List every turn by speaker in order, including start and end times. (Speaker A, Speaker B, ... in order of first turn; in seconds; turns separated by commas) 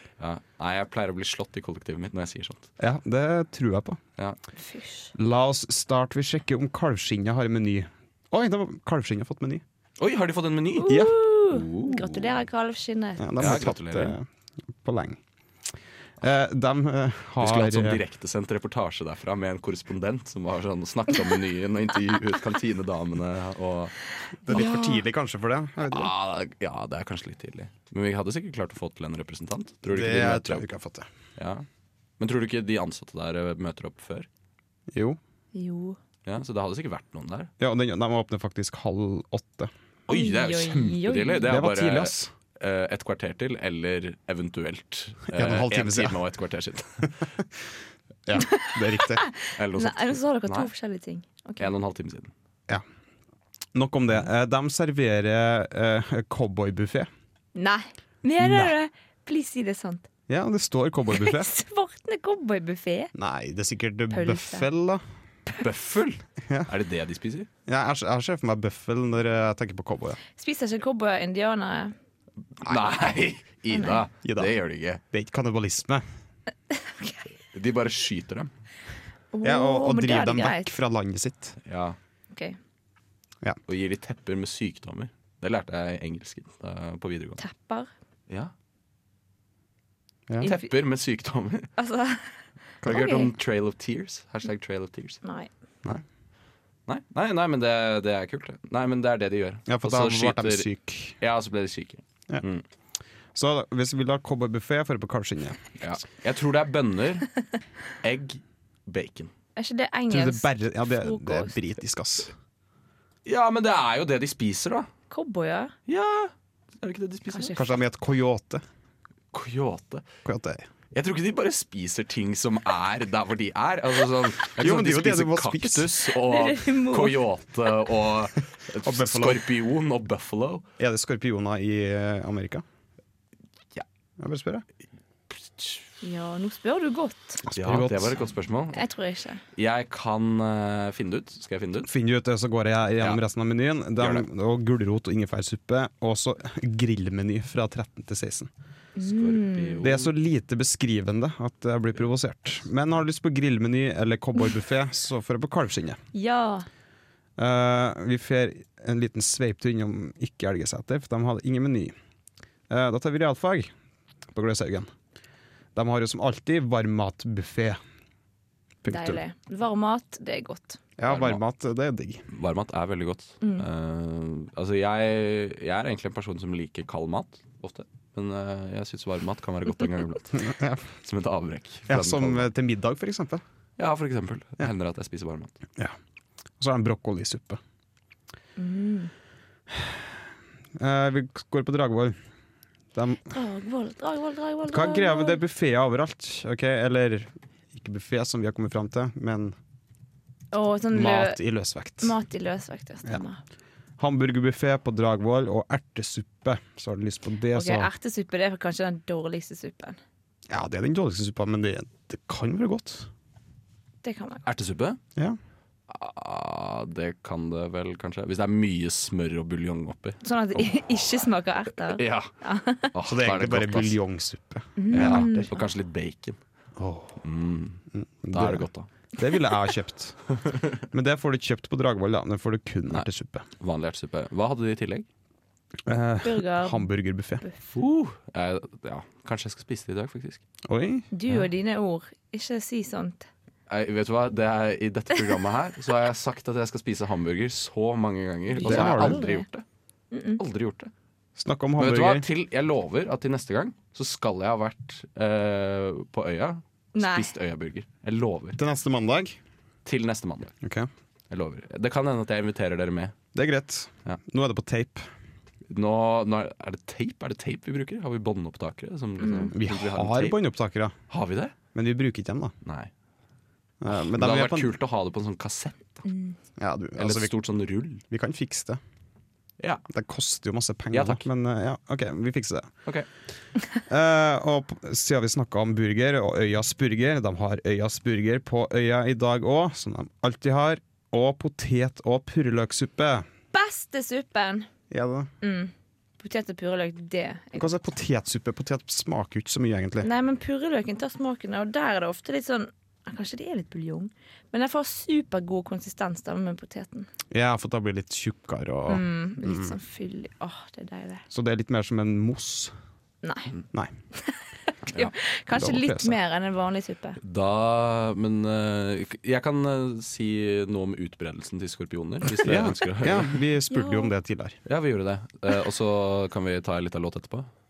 Speaker A: 0.2-2.7, Speaker B: 2.8-4.0, Speaker C: 4.6-5.1, Speaker B: 5.2-9.6, Speaker A: 10.0-12.4, Speaker C: 10.8-13.6, Speaker B: 10.9-11.1, Speaker B: 13.2-14.2, Speaker A: 13.4-14.2, Speaker B: 14.8-15.2, Speaker B: 16.2-18.0, Speaker A: 17.4-24.0, Speaker B: 24.4-26.1, Speaker C: 24.5-25.0, Speaker A: 25.8-30.6, Speaker B: 29.9-31.1, Speaker A: 31.4-31.7, Speaker A: 32.2-34.3, Speaker B: 34.9-35.2, Speaker C: 35.5-36.0, Speaker A: 36.2-37.5, Speaker B: 37.6-39.7, Speaker C: 40.1-41.5, Speaker A: 40.1-47.2, Speaker B: 41.4-42.3, Speaker B: 45.3-46.2, Speaker B: 48.3-49.2, Speaker C: 48.4-51.7, Speaker A: 49.6-50.7, Speaker A: 51.6-52.3, Speaker B: 53.7-57.1, Speaker C: 57.5-60.1, Speaker B: 58.4-58.7, Speaker B: 60.3-61.5, Speaker C: 61.1-63.1, Speaker B: 63.1-65.0, Speaker C: 64.1-64.7, Speaker A: 65.6-67.5, Speaker B: 67.7-70.2, Speaker C: 70.4-71.9, Speaker A: 72.6-75.0, Speaker B: 72.7-72.9, Speaker C: 73.7-74.0, Speaker B: 74.2-74.6, Speaker B: 75.1-76.0, Speaker C: 76.7-77.2, Speaker A: 77.5-78.5, Speaker C: 79.3-80.7, Speaker B: 79.4-81.6, Speaker A: 81.6-82.0, Speaker C: 82.3-82.6, Speaker A: 83.7-87.4, Speaker C: 87.4-87.9, Speaker C: 90.4-90.7, Speaker A: 90.4-91.7, Speaker C: 91.8-93.3, Speaker A: 92.9-95.2, Speaker C: 95.2-95.5, Speaker A: 96.9-102.7, Speaker B: 99.7-101.2, Speaker B: 103.3-105.6, Speaker A: 105.8-107.3, Speaker A: 108.0-109.3, Speaker C: 109.6-111.5, Speaker B: 110.1-112.3, Speaker A: 113.2-114.9, Speaker C: 115.1-115.7, Speaker A: 115.9-117.7, Speaker C: 117.3-117.6, Speaker B: 117.6-118.6, Speaker A: 119.3-120.0, Speaker B: 120.2-120.7, Speaker A: 120.9-130.6, Speaker B: 124.6-126.0, Speaker C: 126.2-127.2, Speaker B: 128.8-129.4, Speaker B: 130.8-132.7, Speaker B: 134.2-134.7, Speaker A: 135.3-135.8, Speaker C: 136.0-137.4, Speaker B: 137.4-138.2, Speaker A: 137.5-138.8, Speaker C: 138.7-139.4, Speaker A: 139.6-141.9, Speaker B: 141.8-148.5, Speaker A: 144.0-144.3, Speaker C: 148.9-149.9, Speaker A: 149.0-150.1, Speaker B: 149.8-156.0, Speaker C: 156.1-156.7, Speaker B: 157.4-161.9, Speaker B: 162.7-163.7, Speaker B: 164.3-164.9, Speaker B: 165.8-167.8, Speaker B: 168.8-169.2, Speaker C: 168.9-170.8, Speaker B: 171.0-172.2, Speaker A: 171.1-171.4, Speaker A: 172.3-180.5, Speaker C: 173.4-173.7, Speaker B: 180.3-180.8, Speaker A: 181.0-182.5, Speaker B: 181.9-183.4, Speaker A: 183.8-185.6, Speaker B: 186.6-187.6, Speaker C: 188.6-189.1, Speaker B: 190.8-192.2, Speaker B: 192.9-193.3, Speaker C: 193.3-195.4, Speaker B: 194.7-199.6, Speaker C: 200.5-201.4, Speaker B: 200.9-202.1, Speaker C: 202.0-203.4, Speaker B: 204.0-207.9, Speaker C: 207.5-210.0, Speaker B: 210.5-213.1, Speaker C: 214.0-214.4, Speaker A: 214.4-215.0, Speaker A: 215.9-220.2, Speaker C: 220.2-222.9, Speaker A: 221.9-222.3, Speaker A: 222.9-224.0, Speaker B: 223.1-225.5, Speaker C: 224.8-225.6, Speaker A: 224.9-226.4, Speaker B: 226.8-227.2, Speaker A: 227.2-228.9, Speaker B: 227.9-230.3, Speaker B: 230.9-233.4, Speaker A: 233.6-235.1, Speaker B: 235.8-237.4, Speaker C: 236.2-236.9, Speaker A: 237.7-240.4, Speaker B: 240.7-241.1, Speaker C: 241.1-243.3, Speaker A: 243.7-249.6, Speaker C: 248.5-249.4, Speaker B: 248.6-249.3, Speaker C: 250.1-250.4, Speaker A: 250.4-250.9, Speaker B: 251.4-252.3, Speaker A: 251.8-258.6, Speaker C: 256.9-257.3, Speaker B: 258.6-259.4, Speaker A: 259.8-260.5, Speaker B: 260.6-260.9, Speaker A: 261.3-263.1, Speaker B: 263.3-265.1, Speaker A: 265.7-270.4, Speaker C: 269.2-269.5, Speaker B: 269.5-270.9, Speaker A: 271.1-271.6, Speaker B: 271.8-272.5, Speaker A: 272.6-272.9, Speaker B: 273.8-274.7, Speaker A: 273.9-276.1, Speaker C: 276.1-276.3, Speaker B: 276.6-277.3, Speaker A: 277.0-278.0, Speaker B: 278.1-278.8, Speaker B: 279.9-282.7, Speaker A: 280.9-281.2, Speaker B: 283.9-293.3, Speaker C: 293.5-294.7, Speaker B: 294.9-295.3, Speaker C: 295.4-297.8, Speaker B: 297.6-300.1, Speaker C: 300.0-307.1, Speaker B: 307.3-309.8, Speaker C: 308.9-311.2, Speaker B: 311.3-312.7, Speaker C: 313.2-313.5, Speaker C: 314.1-317.2, Speaker B: 315.5-316.2, Speaker A: 317.2-323.4, Speaker B: 322.3-324.6, Speaker C: 323.7-324.1, Speaker A: 324.7-327.5